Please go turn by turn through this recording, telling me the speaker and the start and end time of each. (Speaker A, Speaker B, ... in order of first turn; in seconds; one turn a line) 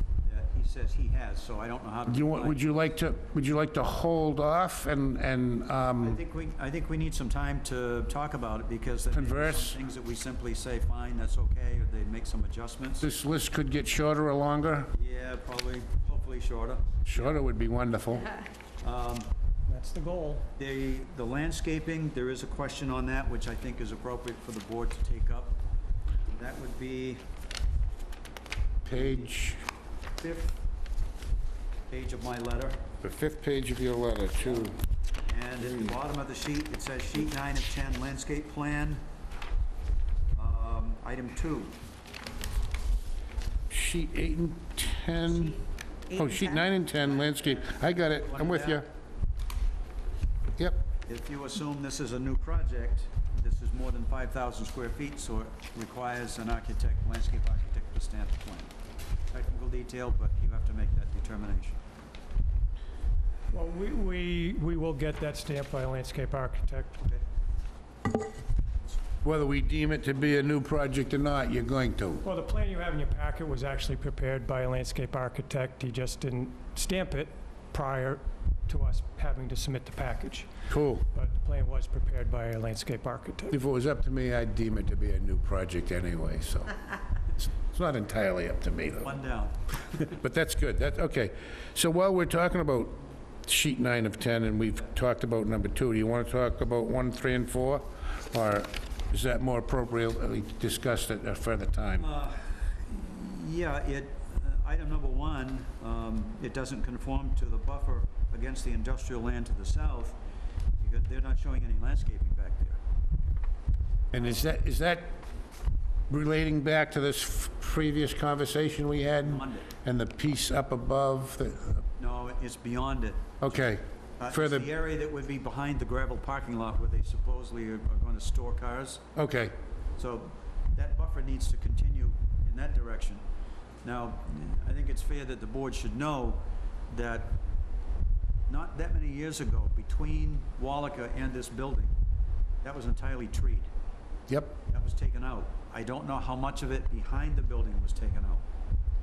Speaker A: 0.2-2.6
Speaker B: 2.1-6.2
Speaker A: 6.0-13.1
Speaker B: 9.1-9.8
Speaker B: 13.0-14.9
Speaker A: 14.9-17.4
Speaker B: 17.1-18.3
Speaker A: 18.8-19.3
Speaker C: 19.7-20.4
Speaker A: 20.6-25.6
Speaker A: 26.3-27.2
Speaker B: 28.8-29.6
Speaker A: 30.2-30.5
Speaker A: 31.9-32.8
Speaker B: 33.0-34.8
Speaker A: 35.3-39.0
Speaker A: 40.3-41.8
Speaker B: 43.7-48.8
Speaker A: 46.2-48.9
Speaker A: 51.1-58.7
Speaker A: 59.3-61.8
Speaker C: 63.5-67.0
Speaker B: 69.2-72.2
Speaker C: 72.2-80.5
Speaker B: 80.7-81.0
Speaker C: 81.1-83.6
Speaker B: 83.5-86.8
Speaker B: 87.4-89.1
Speaker A: 89.0-89.6
Speaker B: 90.1-102.1
Speaker A: 102.0-110.2
Speaker A: 110.8-112.8
Speaker B: 114.1-115.2
Speaker B: 116.1-121.8
Speaker A: 119.2-119.7
Speaker A: 122.0-123.3
Speaker B: 123.4-124.7
Speaker A: 124.2-129.0
Speaker B: 129.2-129.5
Speaker A: 130.0-133.2
Speaker A: 133.8-137.4
Speaker A: 138.5-141.9
Speaker A: 142.6-143.7
Speaker B: 144.3-144.6
Speaker A: 144.7-148.4